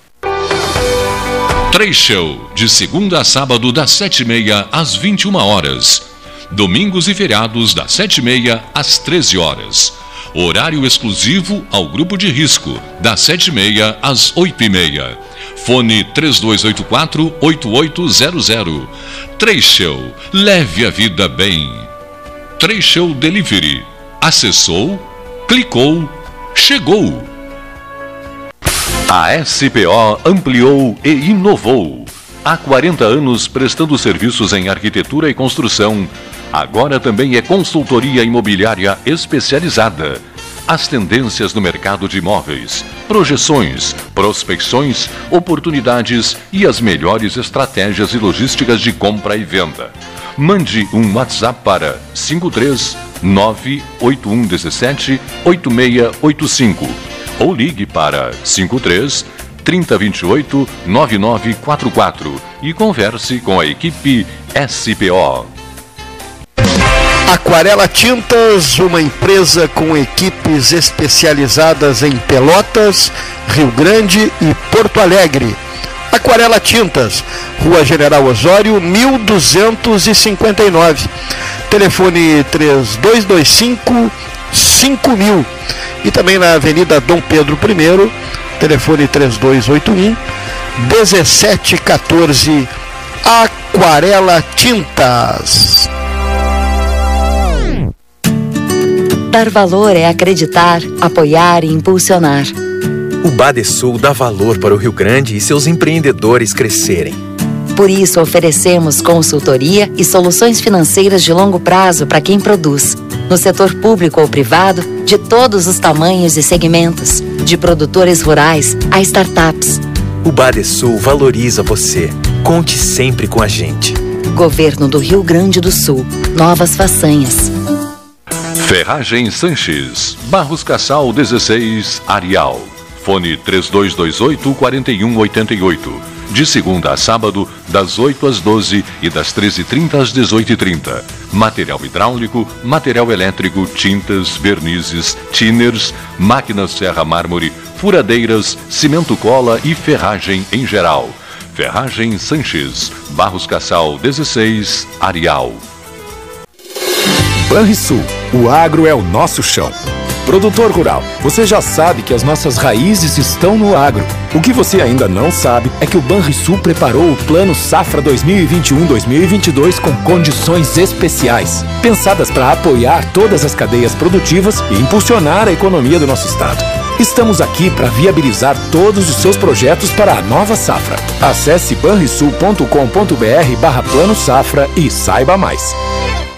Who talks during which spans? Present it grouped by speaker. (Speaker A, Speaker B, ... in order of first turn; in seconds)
Speaker A: 1.7-21.9, 22.6-27.3, 29.1-65.5, 128.6-155.6
Speaker B: 67.3-75.6, 76.1-81.1, 81.7-85.5, 86.0-90.2, 90.8-92.7, 93.2-95.9
Speaker C: 99.3-102.5, 107.7-119.8, 124.3-127.5
Speaker D: 103.2-107.2, 120.2-124.0
Speaker E: 157.5-185.8